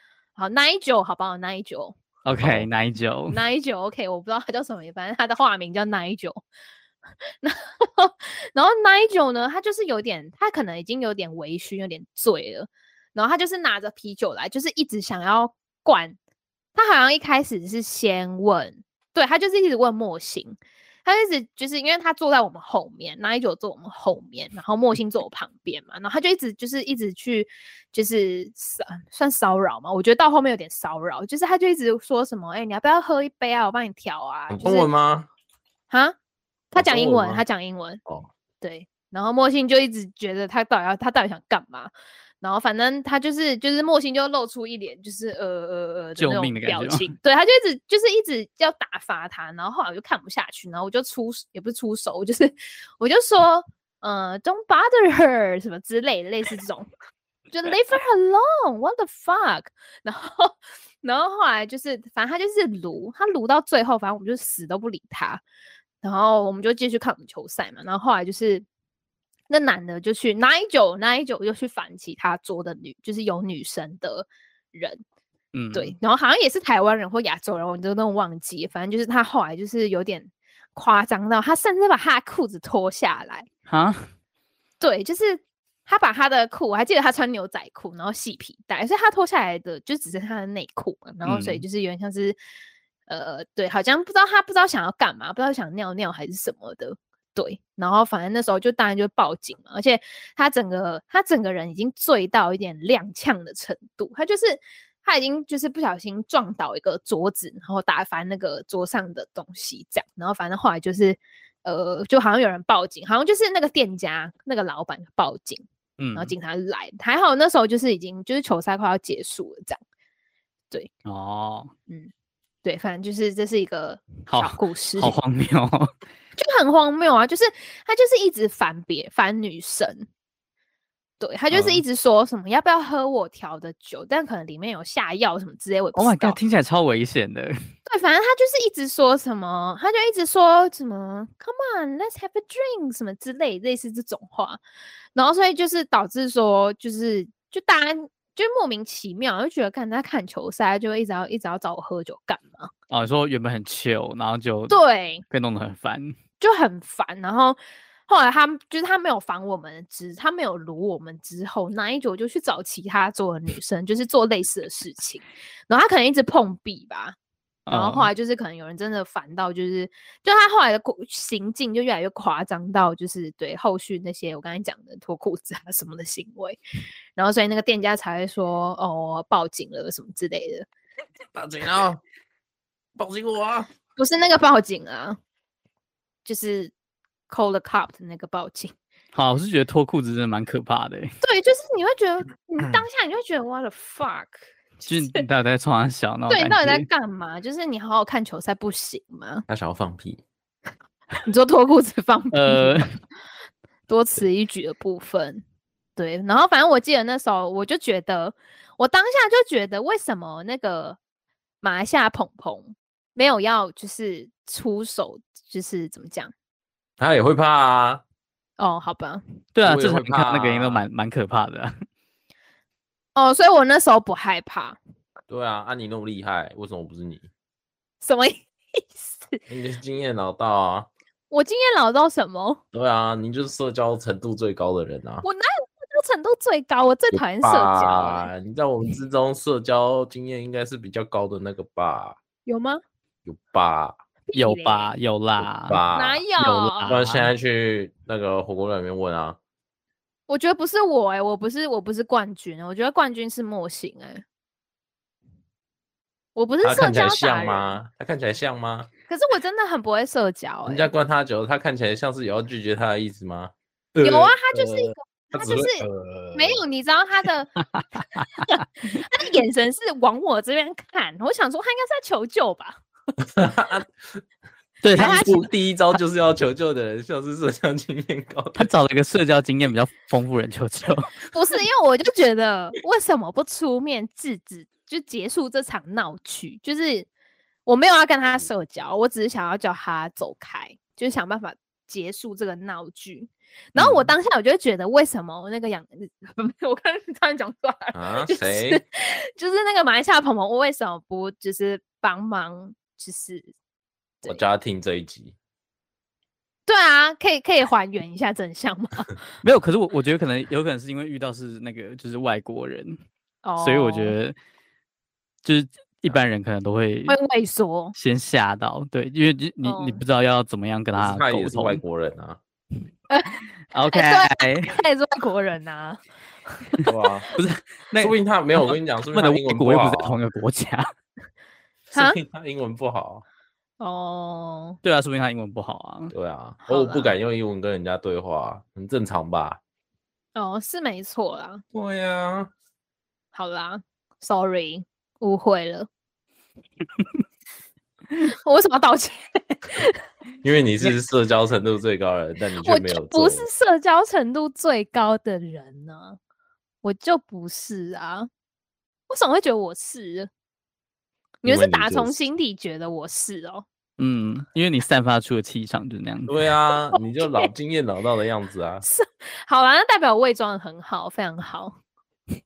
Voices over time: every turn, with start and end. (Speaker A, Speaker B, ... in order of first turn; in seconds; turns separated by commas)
Speaker A: 0.4-2.0, Speaker B: 2.2-3.4, Speaker C: 2.3-2.7, Speaker A: 3.3-6.4, Speaker A: 7.4-16.2, Speaker A: 16.8-34.9, Speaker C: 34.5-35.3, Speaker A: 35.9-36.1, Speaker A: 36.7-38.0, Speaker C: 36.8-37.4, Speaker A: 38.6-56.9, Speaker B: 46.2-47.1, Speaker A: 57.5-65.4, Speaker A: 66.0-68.7, Speaker A: 69.5-75.0, Speaker B: 75.5-75.9, Speaker A: 75.7-83.5, Speaker B: 83.7-84.0, Speaker A: 84.8-92.4, Speaker B: 91.2-91.6, Speaker A: 93.1-115.6, Speaker B: 116.0-116.3, Speaker A: 116.2-119.8, Speaker B: 121.1-121.7, Speaker A: 122.6-125.2, Speaker B: 124.3-125.9, Speaker A: 126.4-130.1, Speaker A: 131.2-136.4, Speaker B: 131.5-131.8, Speaker B: 136.0-137.6, Speaker A: 137.9-144.6, Speaker A: 145.2-152.7, Speaker B: 152.9-156.2, Speaker A: 154.7-155.2, Speaker A: 156.4-167.2, Speaker B: 167.7-168.1, Speaker A: 167.7-176.6, Speaker A: 177.2-180.7, Speaker C: 181.3-182.0, Speaker C: 183.0-183.7, Speaker A: 184.0-185.2, Speaker A: 186.2-186.7, Speaker A: 187.3-188.7, Speaker B: 189.1-191.1, Speaker A: 191.2-195.2, Speaker B: 194.9-196.9, Speaker A: 196.3-199.4, Speaker C: 199.5-200.2, Speaker A: 201.2-202.8, Speaker B: 202.3-202.9, Speaker A: 203.9-205.4, Speaker A: 206.0-211.0, Speaker A: 211.6-216.3, Speaker C: 217.0-218.0, Speaker A: 218.6-219.2, Speaker B: 219.6-221.7, Speaker C: 219.6-220.8, Speaker A: 223.1-224.8, Speaker C: 225.3-227.3, Speaker A: 228.0-229.4, Speaker C: 229.5-230.9, Speaker A: 231.3-232.6, Speaker C: 232.7-235.2, Speaker A: 235.2-238.3, Speaker C: 237.1-242.2, Speaker A: 242.5-242.8, Speaker C: 243.3-244.0, Speaker A: 244.3-244.9, Speaker B: 244.3-245.8, Speaker C: 245.4-246.2, Speaker A: 245.9-247.0, Speaker B: 246.4-247.3, Speaker C: 246.9-249.4, Speaker A: 250.3-254.2, Speaker A: 256.4-257.7, Speaker C: 256.6-258.9, Speaker A: 259.1-260.9, Speaker C: 260.6-266.6, Speaker A: 264.0-267.6, Speaker A: 268.5-272.8, Speaker C: 273.2-274.2, Speaker B: 274.8-275.5, Speaker A: 274.9-275.5, Speaker C: 275.0-278.7, Speaker B: 278.6-281.1, Speaker A: 281.3-287.1, Speaker A: 287.6-303.5, Speaker C: 297.9-298.8, Speaker C: 304.2-305.4, Speaker A: 306.7-309.2, Speaker B: 309.4-313.0, Speaker A: 313.4-314.1, Speaker B: 313.6-314.4, Speaker B: 315.4-317.2, Speaker A: 317.1-317.9, Speaker B: 318.0-321.8, Speaker A: 319.6-320.0, Speaker C: 321.0-322.4, Speaker A: 323.1-326.0, Speaker B: 323.7-324.8, Speaker A: 326.5-327.3, Speaker C: 326.9-327.3, Speaker B: 327.4-328.1, Speaker C: 328.0-330.2, Speaker B: 329.1-330.9, Speaker C: 331.9-333.2, Speaker A: 331.9-332.2, Speaker A: 333.8-334.8, Speaker B: 334.8-336.1, Speaker C: 336.1-339.6, Speaker A: 336.6-337.1, Speaker A: 340.4-341.6, Speaker C: 341.7-342.5, Speaker A: 343.3-345.9, Speaker A: 348.2-350.0, Speaker C: 350.4-353.5, Speaker A: 352.6-356.2, Speaker A: 356.8-358.3, Speaker A: 359.1-360.3, Speaker A: 361.4-363.6, Speaker C: 361.4-362.2, Speaker B: 364.0-366.3, Speaker C: 366.3-368.9, Speaker A: 366.9-367.5, Speaker A: 368.8-371.8